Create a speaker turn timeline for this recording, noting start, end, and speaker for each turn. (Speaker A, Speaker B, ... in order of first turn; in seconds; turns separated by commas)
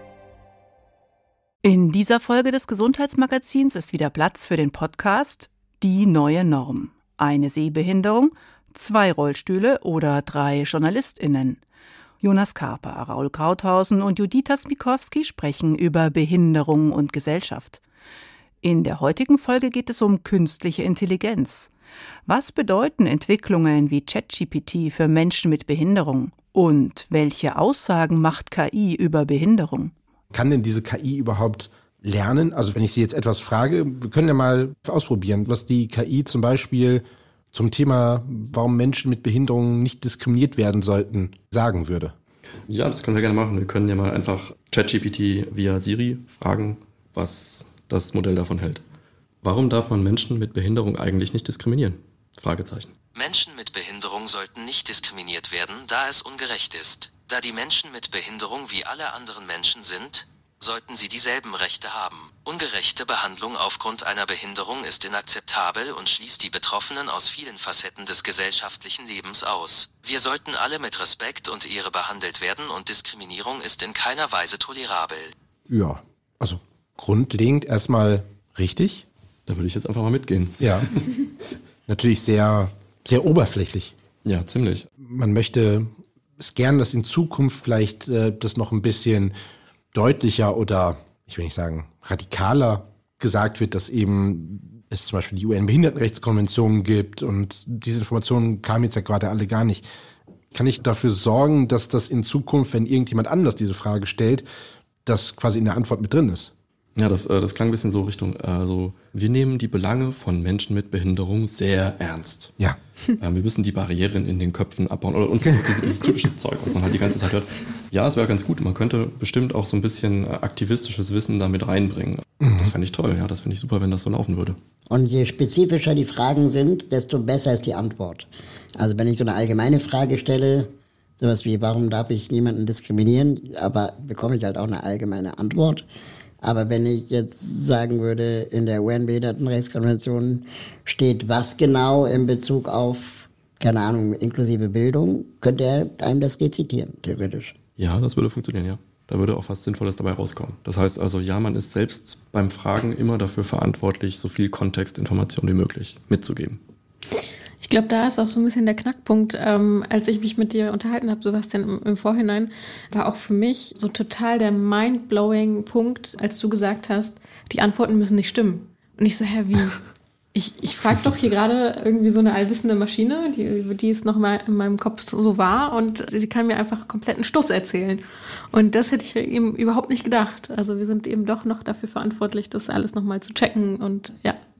Speaker A: 1.6-11.6, Speaker A: 12.2-17.8, Speaker A: 18.6-21.7, Speaker A: 22.3-29.9, Speaker B: 30.3-42.1, Speaker C: 42.7-48.8, Speaker C: 49.4-52.9, Speaker D: 53.1-75.3, Speaker B: 75.7-79.0, Speaker C: 79.5-81.3, Speaker B: 80.6-80.9, Speaker B: 81.9-83.9, Speaker C: 84.2-84.9, Speaker B: 85.0-89.3, Speaker B: 89.9-99.9, Speaker B: 100.5-104.5, Speaker B: 105.0-106.5, Speaker C: 107.0-112.5, Speaker C: 113.2-124.6, Speaker B: 122.5-122.7, Speaker E: 124.9-128.3, Speaker E: 128.8-135.8, Speaker E: 136.4-147.6, Speaker C: 147.8-156.6, Speaker F: 157.6-169.8, Speaker F: 170.3-184.4